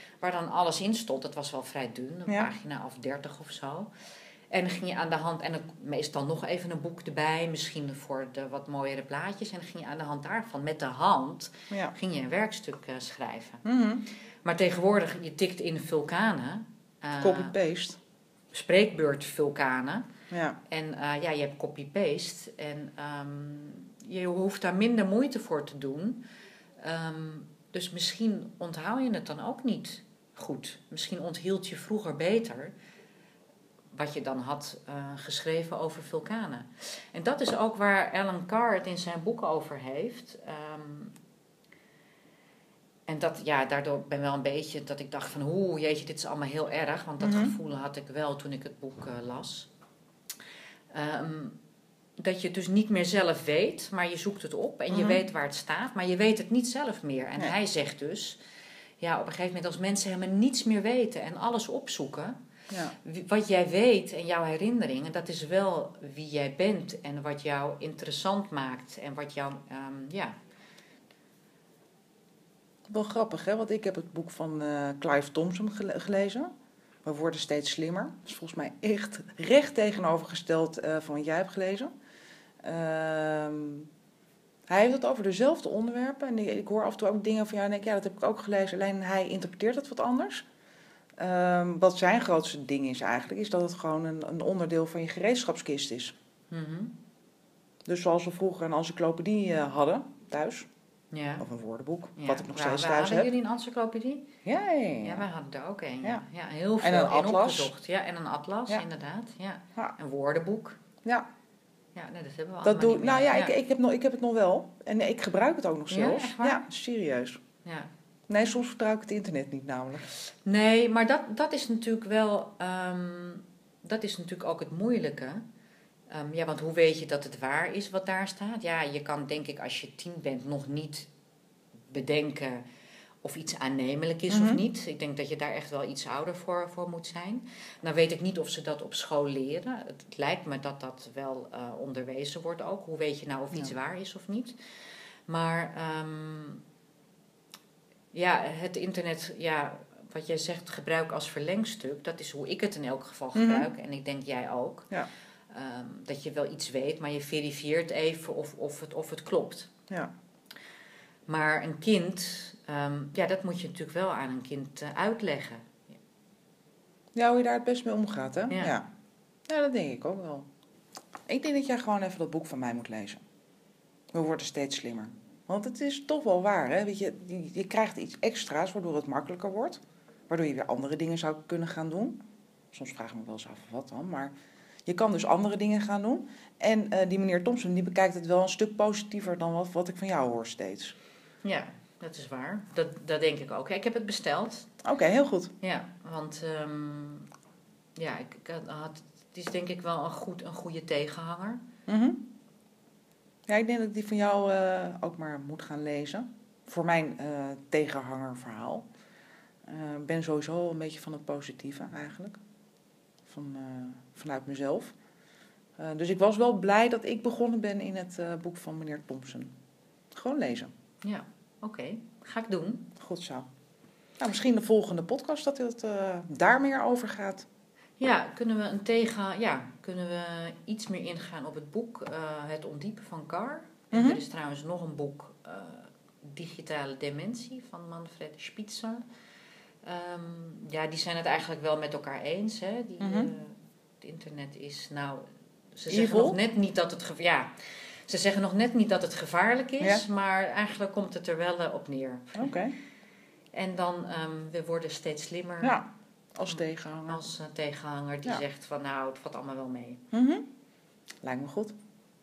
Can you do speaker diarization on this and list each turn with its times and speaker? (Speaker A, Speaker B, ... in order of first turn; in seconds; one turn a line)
Speaker A: 0.2-3.9
Speaker A: 4.5-13.6
Speaker B: 13.6-14.0
Speaker A: 14.4-17.5
Speaker B: 17.2-18.0
Speaker A: 18.5-20.1
Speaker B: 20.3-20.6
Speaker A: 20.7-26.2
Speaker A: 26.8-32.7
Speaker A: 33.9-41.1
Speaker A: 43.1-49.7
Speaker B: 47.2-47.5
Speaker A: 50.9-51.6
Speaker A: 52.2-58.4
Speaker B: 54.9-55.2
Speaker A: 59.0-62.4
Speaker B: 62.7-62.9
Speaker A: 63.0-70.4
Speaker B: 72.9-76.5
Speaker B: 77.0-81.9
Speaker B: 82.6-83.9
Speaker B: 84.7-90.5
Speaker B: 91.2-96.1
Speaker A: 96.5-97.0
Speaker B: 97.8-100.7
Speaker A: 101.1-101.4
Speaker B: 101.4-103.3
Speaker A: 102.2-104.3
Speaker B: 104.4-105.3
Speaker A: 105.0-110.8
Speaker B: 106.8-107.7
Speaker A: 111.9-113.5
Speaker B: 112.6-117.4
Speaker A: 115.9-116.6
Speaker A: 117.6-117.9
Speaker B: 118.3-120.1
Speaker A: 120.4-125.4
Speaker A: 126.1-131.1
Speaker A: 131.9-132.6
Speaker A: 133.2-144.5
Speaker B: 134.3-134.6
Speaker A: 145.3-146.6
Speaker A: 148.1-154.9
Speaker B: 153.3-153.7
Speaker A: 155.5-159.7
Speaker A: 161.3-165.8
Speaker B: 167.1-168.8
Speaker B: 169.5-170.5
Speaker B: 171.3-173.2
Speaker B: 174.1-182.2
Speaker B: 182.7-184.3
Speaker B: 184.8-190.9
Speaker A: 191.4-194.7
Speaker B: 194.8-195.5
Speaker A: 195.6-197.3
Speaker A: 197.9-201.6
Speaker B: 201.9-202.2
Speaker B: 203.5-208.8
Speaker B: 209.7-212.4
Speaker B: 213.3-214.9
Speaker B: 215.8-219.5
Speaker B: 220.1-220.7
Speaker A: 221.0-222.9
Speaker B: 223.0-223.5
Speaker B: 224.2-227.4
Speaker A: 228.0-239.0
Speaker B: 233.9-234.2
Speaker A: 239.8-252.5
Speaker B: 243.0-243.3
Speaker B: 245.9-246.4
Speaker B: 249.8-250.0
Speaker B: 252.3-252.8
Speaker A: 253.5-255.8
Speaker B: 255.6-257.2
Speaker A: 256.5-260.0
Speaker B: 260.1-260.5
Speaker B: 261.2-261.7